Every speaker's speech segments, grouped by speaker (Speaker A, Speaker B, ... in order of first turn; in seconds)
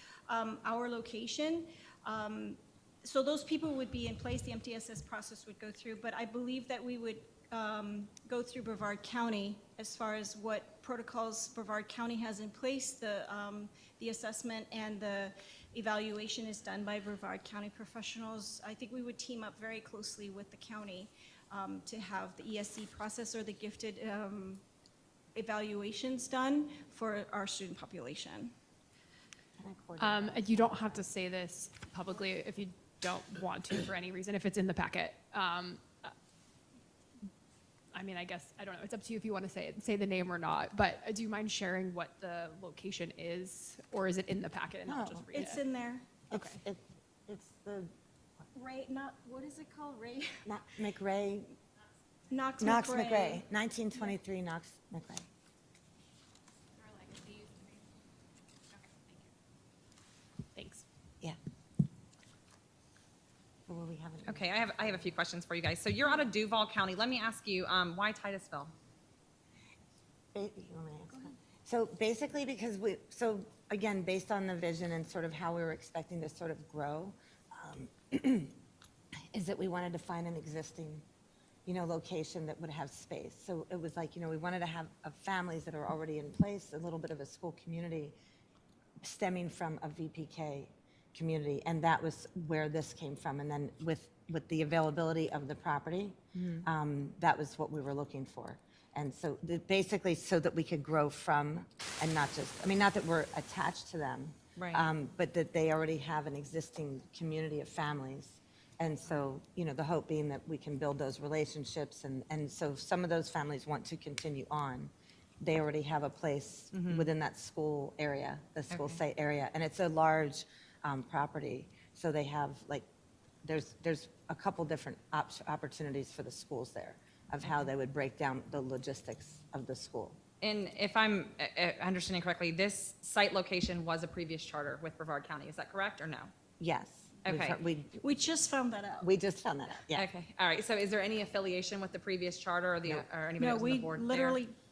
Speaker A: 0.3-24.6, 25.4-28.5, 45.3-46.1, 48.5-50.4, 52.3-53.4, 138.0-139.1, 143.4-144.5
Speaker B: 29.6-31.1, 44.9-45.2, 46.3-47.9, 50.5-51.6, 52.6-55.3, 63.7-65.0, 70.3-78.6, 79.3-81.0, 81.7-88.2, 89.0-122.9, 123.4-130.2, 136.6-138.0, 139.0-140.1
Speaker C: 30.0-36.1, 37.9-45.6, 46.3-46.6, 57.1-57.5, 60.5-60.8
Speaker D: 64.3-68.7, 96.3-96.7, 104.6-104.8, 116.7-117.1, 118.7-119.0, 130.4-136.3, 137.2-137.6, 139.9-144.4